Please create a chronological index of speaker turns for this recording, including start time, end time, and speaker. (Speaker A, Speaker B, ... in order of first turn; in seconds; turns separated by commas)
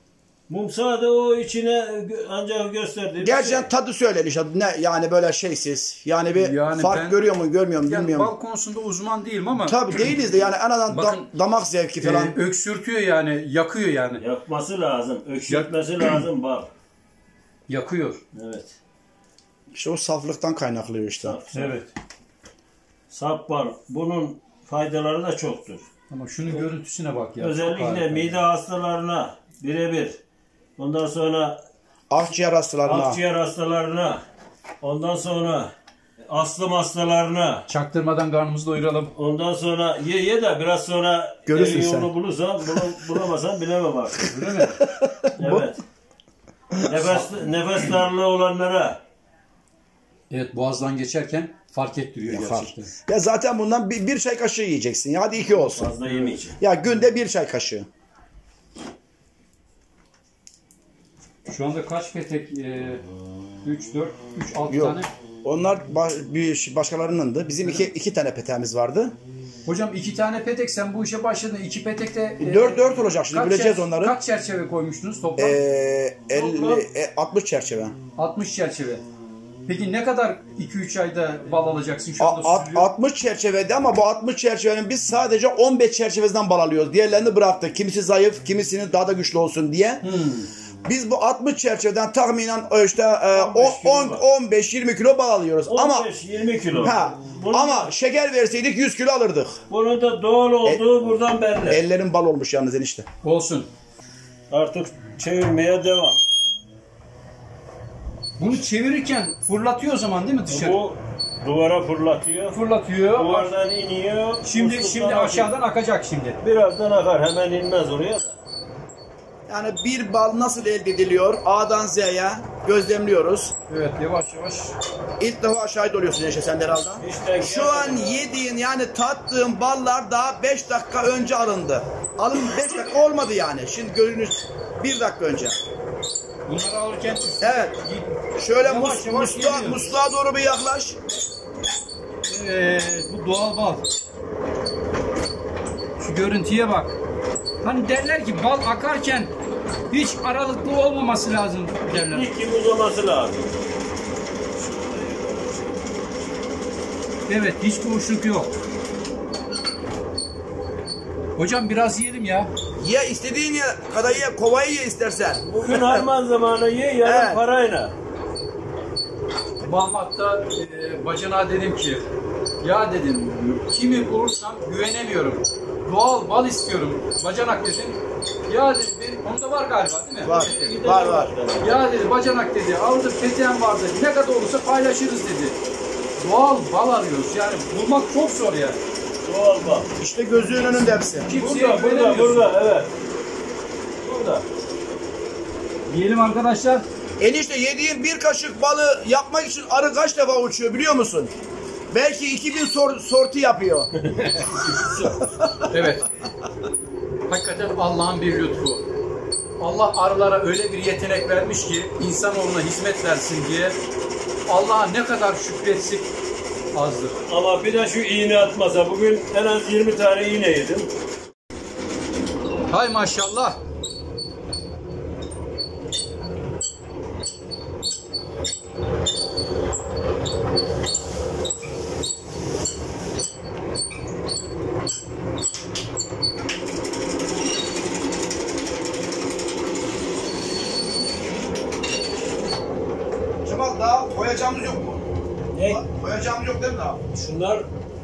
Speaker A: 0.5-3.7, Speaker B: 3.2-8.3, Speaker C: 6.3-7.2, Speaker C: 7.8-9.8, Speaker B: 9.6-12.3, Speaker C: 10.9-11.2, Speaker C: 12.0-14.2, Speaker A: 14.2-16.7, Speaker C: 15.5-16.2, Speaker C: 17.7-18.2, Speaker A: 18.3-18.8, Speaker B: 19.7-21.4, Speaker A: 21.2-21.8, Speaker C: 21.5-21.9, Speaker A: 23.1-25.8, Speaker C: 26.1-28.4, Speaker A: 27.4-30.2, Speaker A: 30.8-31.6, Speaker B: 32.1-33.2, Speaker A: 32.8-34.2, Speaker A: 34.8-35.7, Speaker A: 36.3-37.6, Speaker C: 37.7-39.1, Speaker A: 39.1-44.3, Speaker B: 41.5-42.1, Speaker C: 44.3-44.8, Speaker B: 44.6-45.7, Speaker A: 45.4-45.8, Speaker B: 46.7-47.1, Speaker A: 46.9-49.0, Speaker C: 46.9-47.2, Speaker C: 50.3-52.9, Speaker B: 52.3-55.9, Speaker A: 55.4-56.6, Speaker B: 56.6-57.9, Speaker C: 61.5-63.0, Speaker C: 63.6-65.1, Speaker B: 64.7-69.1, Speaker C: 69.7-75.6, Speaker B: 72.4-74.2, Speaker B: 75.4-77.9, Speaker A: 76.3-76.8, Speaker C: 78.2-79.0, Speaker C: 79.7-82.9, Speaker B: 82.2-90.0, Speaker C: 90.0-90.5, Speaker B: 90.8-96.1, Speaker A: 93.3-94.2, Speaker A: 95.7-97.9, Speaker B: 96.7-99.5, Speaker A: 99.7-101.8, Speaker B: 101.7-103.0, Speaker C: 103.2-103.7, Speaker A: 104.5-106.2, Speaker C: 108.4-110.8, Speaker A: 110.5-112.5, Speaker C: 112.5-113.5, Speaker A: 113.1-115.5, Speaker C: 114.4-116.4, Speaker A: 116.4-118.3, Speaker B: 119.5-123.5, Speaker C: 123.7-124.7, Speaker B: 125.2-135.6, Speaker A: 127.0-128.3, Speaker C: 136.5-139.8, Speaker B: 137.4-137.8, Speaker B: 138.4-141.0, Speaker C: 142.3-143.8, Speaker C: 146.0-147.0, Speaker C: 147.6-149.3, Speaker C: 149.9-152.3, Speaker A: 151.9-153.5, Speaker A: 154.6-156.1, Speaker C: 157.3-158.5, Speaker C: 161.3-162.5, Speaker B: 162.8-166.0, Speaker A: 165.4-167.9, Speaker B: 167.0-167.4, Speaker C: 169.6-172.0, Speaker C: 172.6-180.8, Speaker B: 180.2-181.3, Speaker A: 180.2-181.8, Speaker C: 181.6-185.6, Speaker C: 186.2-188.8, Speaker A: 189.2-189.9, Speaker B: 190.0-191.3, Speaker C: 191.2-192.4, Speaker A: 191.3-192.9, Speaker A: 194.0-194.4, Speaker C: 195.9-196.8, Speaker B: 197.2-201.3, Speaker B: 201.9-203.9, Speaker A: 204.0-205.2, Speaker B: 205.2-205.7, Speaker C: 205.7-206.1, Speaker C: 207.3-208.8, Speaker C: 209.6-213.8, Speaker C: 214.5-216.1, Speaker C: 216.7-217.2, Speaker A: 217.3-220.9, Speaker C: 222.7-223.6, Speaker B: 243.4-245.0, Speaker A: 245.5-245.8, Speaker B: 245.6-247.0, Speaker A: 247.1-247.7